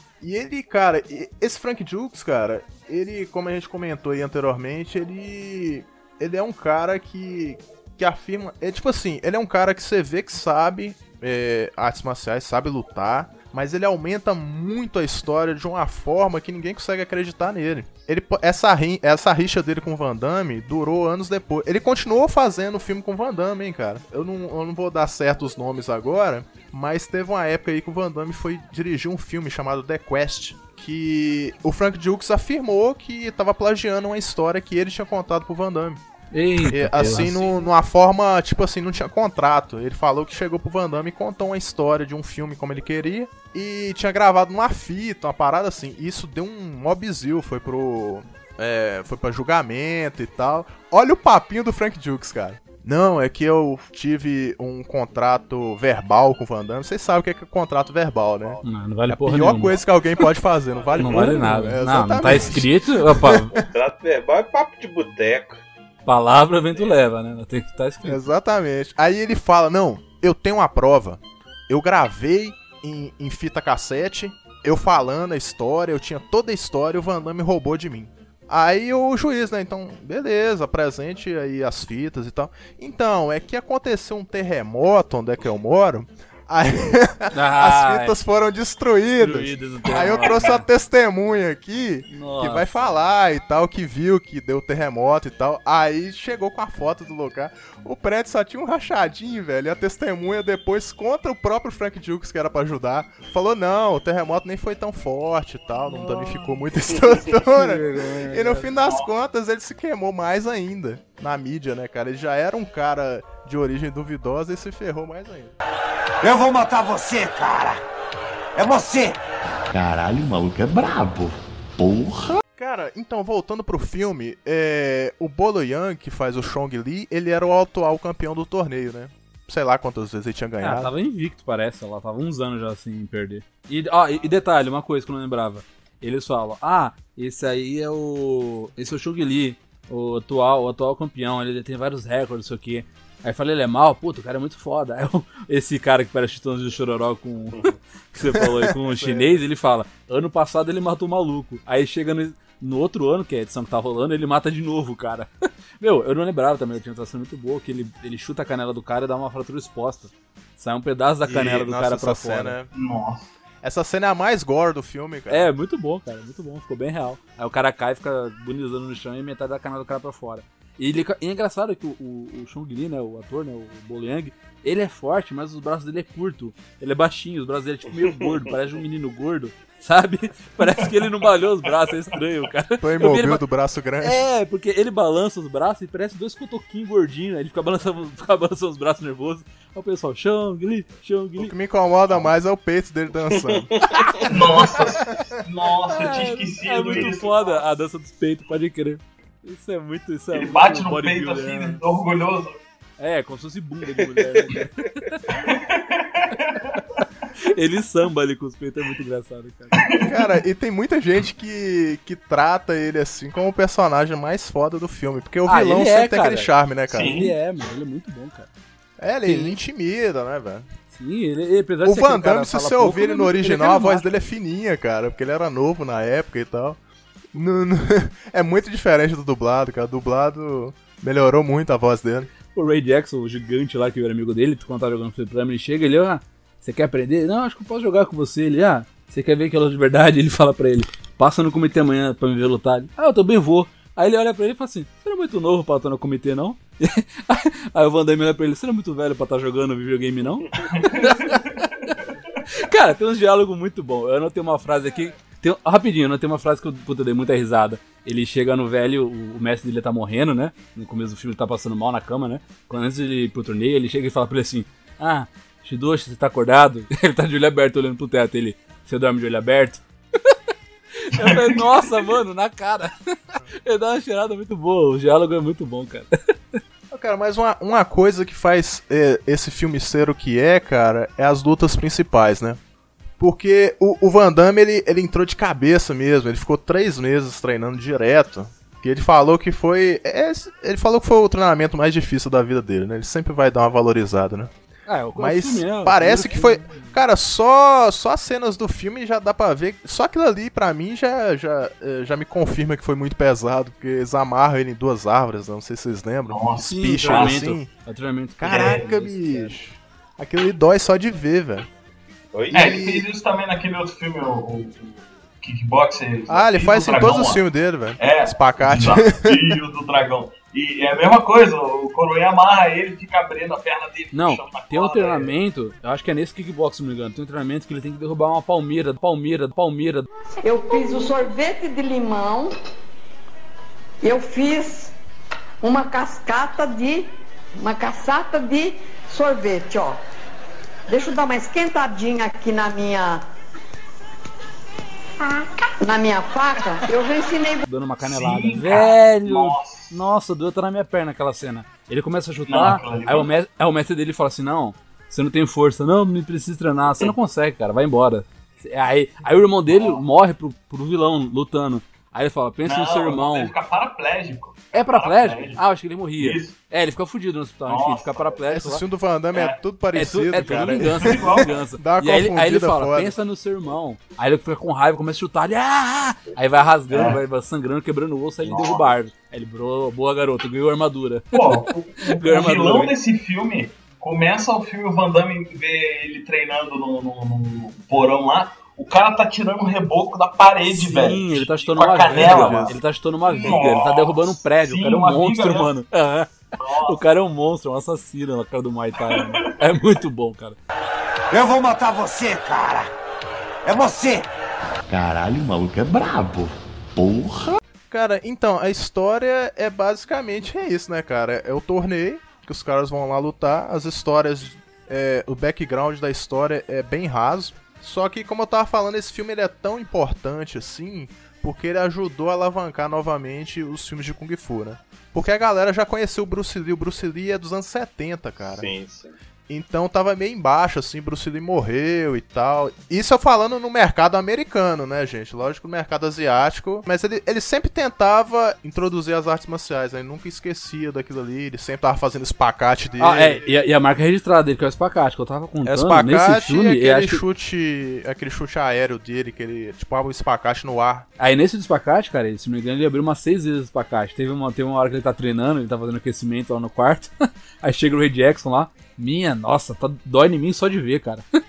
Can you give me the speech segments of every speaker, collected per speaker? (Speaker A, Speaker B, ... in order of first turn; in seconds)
Speaker A: 0.2-36.0, 36.6-63.6, 68.0-115.5, 122.5-130.9, 148.3-149.4, 161.2-162.7, 163.6-165.5, 182.8-184.2, 191.4-193.7, 194.3-195.3, 210.0-217.1, 219.0-220.7, 221.8-226.8, 227.3-232.3, 276.9-282.6, 283.2-294.5, 295.2-307.7, 308.4-311.7, 312.5-313.1, 316.3-319.6, 368.5-373.2, 392.1-392.8, 407.9-428.7, 429.5-443.4, 445.6-451.1
Speaker B: 36.3-37.3, 58.6-59.8, 61.0-63.6, 66.0-68.2, 87.3-88.2, 89.2-90.6, 92.1-92.9, 105.8-108.7, 130.6-155.3, 155.8-162.6, 165.3-183.4, 184.0-191.5, 194.0-194.8, 195.9-201.8, 203.0-205.5, 206.6-209.8, 215.4-218.5, 219.3-219.6, 220.9-224.2, 232.5-251.9, 252.5-270.4, 271.1-272.9, 273.6-276.6, 294.9-297.0, 306.6-309.6, 324.1-330.1, 347.7-363.5, 364.7-368.8, 369.9-382.9, 390.7-396.3, 396.9-400.6, 443.0-447.2, 451.2-457.1, 457.6-461.2
Speaker C: 63.6-65.6, 178.0-178.4, 193.4-193.9, 204.2-204.6, 428.5-429.2
Speaker D: 108.8-109.1, 162.7-163.3, 194.2-197.6, 200.3-202.6, 205.4-206.8, 209.7-210.2, 216.9-217.3, 250.6-252.4, 271.1-272.1, 306.3-307.4, 308.4-308.9, 312.5-317.4, 318.0-325.3, 348.0-349.9, 352.4-353.3, 359.7-360.0, 362.6-365.6, 366.2-366.6, 367.7-368.4, 369.3-369.6, 370.6-371.6, 376.9-377.2, 378.4-379.0, 381.3-395.7, 396.6-397.1, 399.1-399.5
Speaker E: 116.2-117.8, 118.5-119.2, 401.3-402.9, 403.7-404.3
Speaker F: 119.7-122.4, 404.9-407.6
Speaker G: 330.4-332.5, 334.0-334.9, 335.6-340.0, 340.9-343.2, 345.8-347.7